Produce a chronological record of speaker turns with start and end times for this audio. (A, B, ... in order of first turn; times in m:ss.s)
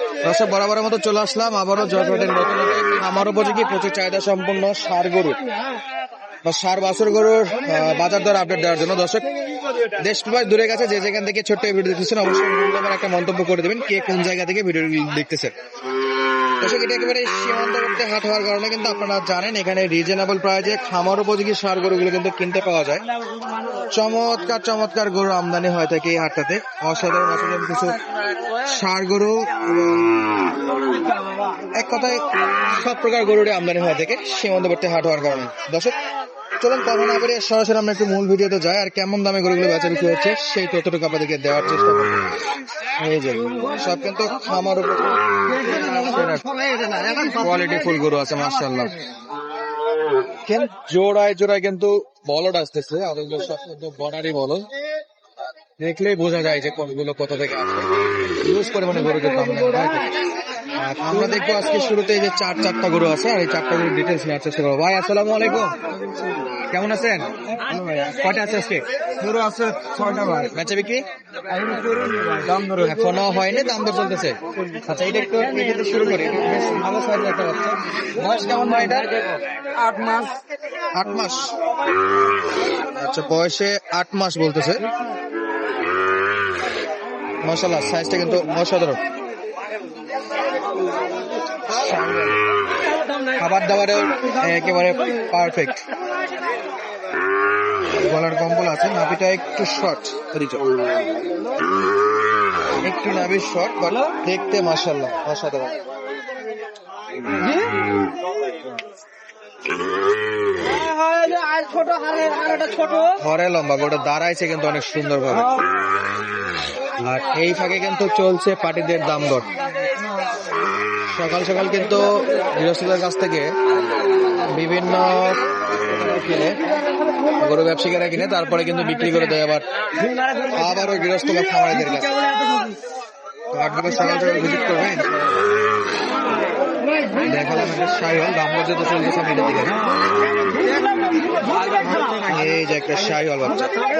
0:00.2-0:05.4 A
0:06.4-0:09.3 A
0:10.0-0:15.5 A
0:16.6-0:23.0 A
0:23.9-0:28.0 A
0:28.6-0:30.1 A
0:31.7-0:35.9 A
0:36.6-0:42.2 A
0:43.0-0:49.0 A
0:46.6-0:47.0 B
0:50.4-0:54.7 A
0:55.8-1:00.1 A
1:00.8-1:05.7 A
1:06.1-1:06.4 B
1:06.7-1:07.3 A
1:07.5-1:08.2 B
1:08.1-1:08.8 A
1:09.2-1:10.5 B
1:10.5-1:11.0 A
1:11.5-1:13.2 B
1:12.8-1:19.1 A
1:19.7-1:20.4 B
1:20.9-1:21.5 A
1:22.8-1:24.8 A
1:27.4-1:29.0 A
1:31.7-1:32.4 A
1:33.4-1:35.9 A
1:37.9-1:40.6 A
1:42.8-1:45.8 A
1:47.4-1:47.6 B
1:50.7-1:53.1 B
1:53.1-1:55.5 A
1:57.0-1:59.5 A
2:01.0-2:03.5 A
2:04.4-2:06.6 A
2:07.4-2:09.6 A
2:10.0-2:10.6 B
2:10.4-2:12.1 A
2:12.2-2:12.8 B
2:13.5-2:15.2 A
2:17.2-2:19.8 A
2:20.5-2:22.5 B
2:22.2-2:23.7 A